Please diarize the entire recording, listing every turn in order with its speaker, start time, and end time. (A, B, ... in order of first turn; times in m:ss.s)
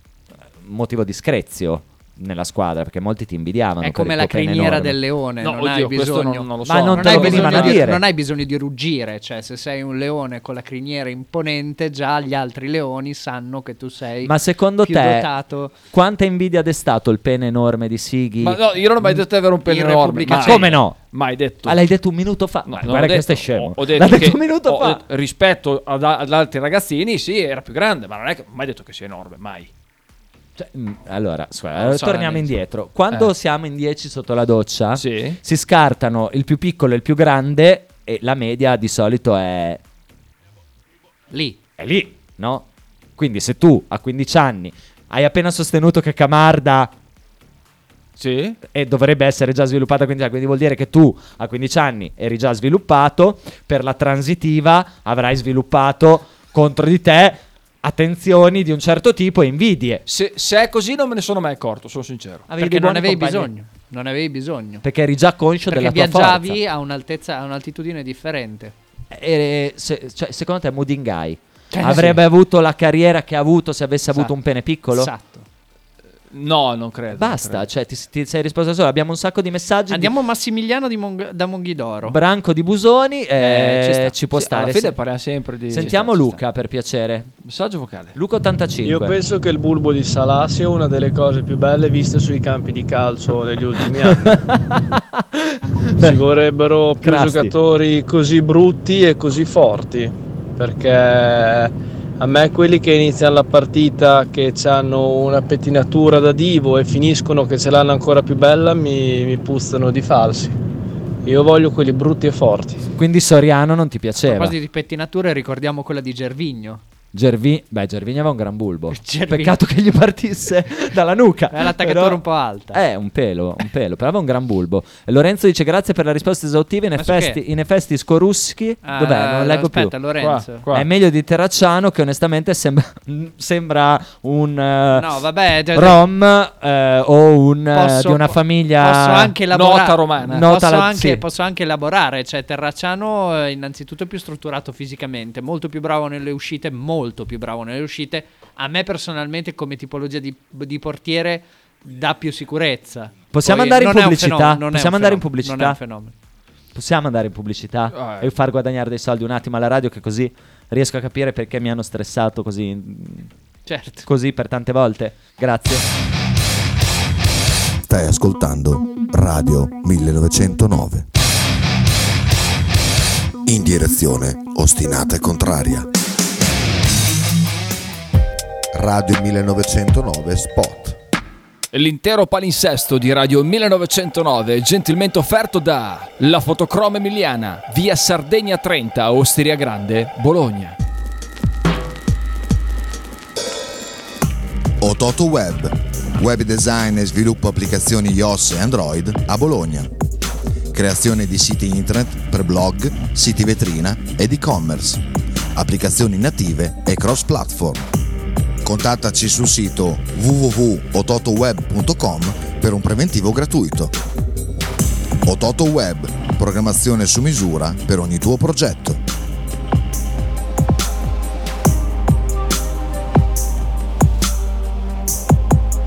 0:00.6-0:05.0 A
0:03.8-0:15.7 B
0:05.4-0:07.9 C
0:06.6-0:08.0 A
0:14.2-0:15.3 A
0:15.9-0:19.2 A
0:18.4-0:21.8 C
0:19.6-0:20.7 B
0:20.3-0:21.0 A
0:21.6-0:25.0 A
0:22.6-0:29.7 C
0:30.6-0:39.8 A
0:31.8-0:32.5 C
0:35.0-0:35.4 C
0:41.3-0:41.6 B
0:41.8-0:46.9 A
0:48.2-0:48.6 C
0:48.6-1:00.0 A
1:00.1-1:02.5 C
1:02.5-1:03.5 A
1:02.5-1:04.8 B
1:04.8-1:06.6 A
1:05.7-1:08.7 B
1:09.1-1:15.1 A
1:11.7-1:12.2 B
1:14.9-1:15.4 B
1:16.3-1:17.7 C
1:17.1-1:20.1 A
1:19.9-1:22.2 B
1:22.1-1:25.0 A
1:23.4-1:24.1 B
1:24.3-1:26.4 C
1:25.7-1:27.3 A
1:27.4-1:28.1 C
1:28.1-1:29.2 A
1:28.8-1:34.3 D
1:34.1-1:36.2 A
1:36.0-1:50.6 D
1:37.0-1:37.5 A
1:51.2-1:52.9 D
1:53.0-1:54.5 A
1:54.2-1:56.8 B
1:57.1-2:09.9 A
1:58.9-1:59.6 B
2:01.5-2:02.8 B
2:07.0-2:07.4 B
2:08.8-2:10.6 B
2:10.2-2:10.9 C
2:10.7-2:15.1 A
2:14.9-2:16.0 B
2:15.7-2:19.4 A
2:17.7-2:36.1 B
2:19.5-2:20.4 C
2:20.2-2:21.2 A
2:33.3-2:35.8 A
2:36.7-2:43.3 A
2:37.9-2:38.3 C
2:43.7-2:44.0 B
2:44.0-2:45.8 A
2:47.8-2:51.1 E
2:53.4-2:55.9 E
2:58.8-3:00.9 E
3:01.7-3:10.8 C
3:14.8-3:19.9 E
3:20.7-3:25.0 E
3:25.5-3:27.9 E
3:28.6-3:33.9 E
3:35.2-3:39.0 E